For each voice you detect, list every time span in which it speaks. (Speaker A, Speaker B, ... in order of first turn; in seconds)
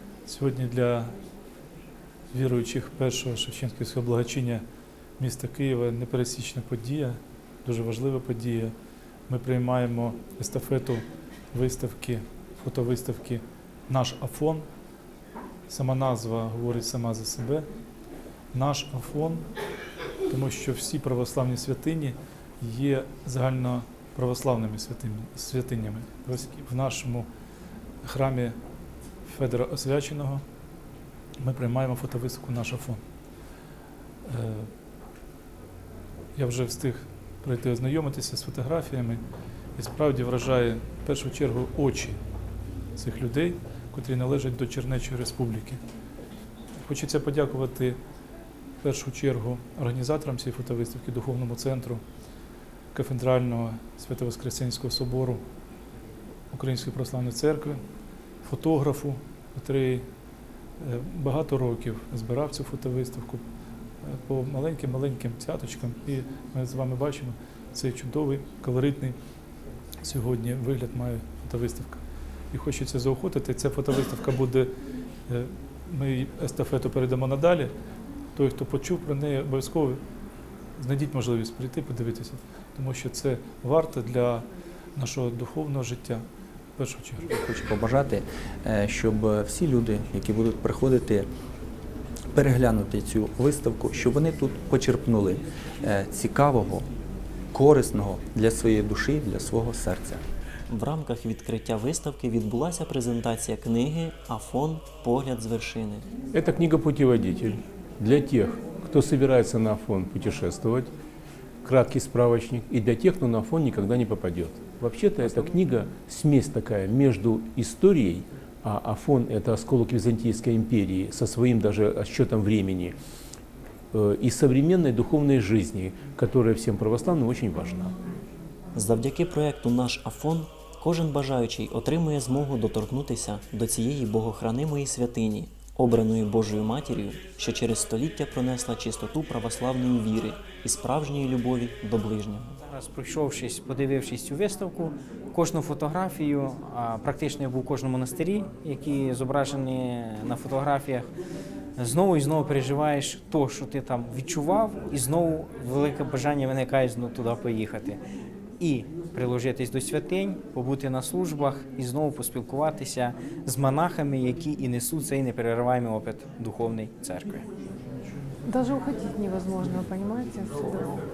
Speaker A: 0.3-1.1, 2.3-4.6, 5.2-8.7, 9.3-14.7, 15.7-17.7, 18.5-19.5, 20.3-27.3, 28.0-28.6, 29.2-30.4, 31.4-33.0, 34.2-34.7, 36.4-39.2, 39.8-42.2, 43.0-45.8, 46.8-48.0, 48.8-52.0, 52.9-55.4, 56.5-57.8, 58.4-60.0, 60.8-63.4, 64.0-69.2, 70.0-72.0, 72.5-74.7, 75.3-77.7, 78.3-80.0, 80.8-86.2, 86.8-87.3
Speaker B: 87.2-91.3, 92.3-96.9, 97.5-100.2
Speaker C: 100.7-106.1, 128.8-142.6
Speaker D: 106.3-110.9, 111.6-123.0, 123.9-127.9
Speaker E: 142.7-151.1, 151.8-158.0, 158.6-167.5
Speaker F: 168.5-171.0